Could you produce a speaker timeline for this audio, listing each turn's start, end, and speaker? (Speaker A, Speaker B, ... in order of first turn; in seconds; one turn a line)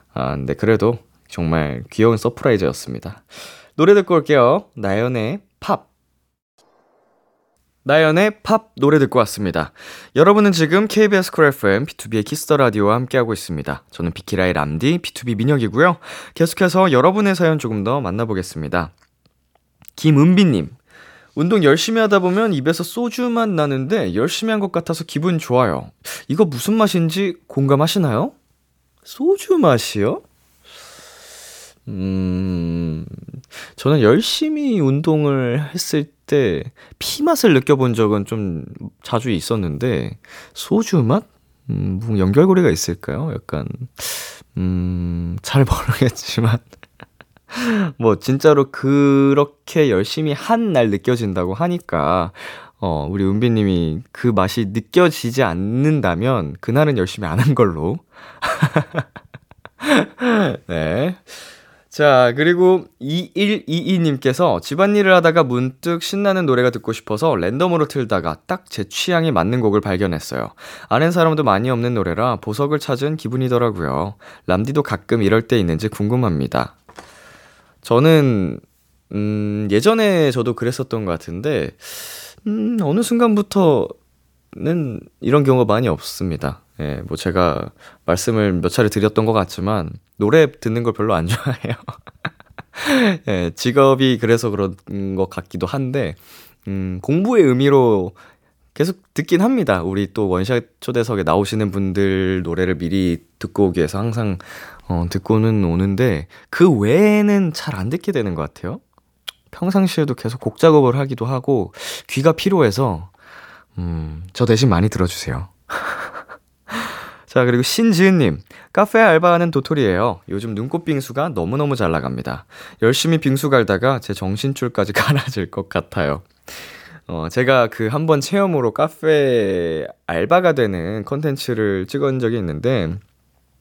Speaker A: 0.1-5.9
Speaker A: 7.8-18.9
Speaker A: 20.0-20.8
Speaker A: 21.4-28.3
Speaker A: 29.1-30.2
Speaker A: 31.9-33.2
Speaker A: 33.8-46.6
Speaker A: 47.5-59.0
Speaker A: 59.8-76.7
Speaker A: 77.8-83.9
Speaker A: 84.5-91.9
Speaker A: 92.8-98.2
Speaker A: 98.8-108.8
Speaker A: 109.5-113.1
Speaker A: 113.8-116.1
Speaker A: 116.7-133.0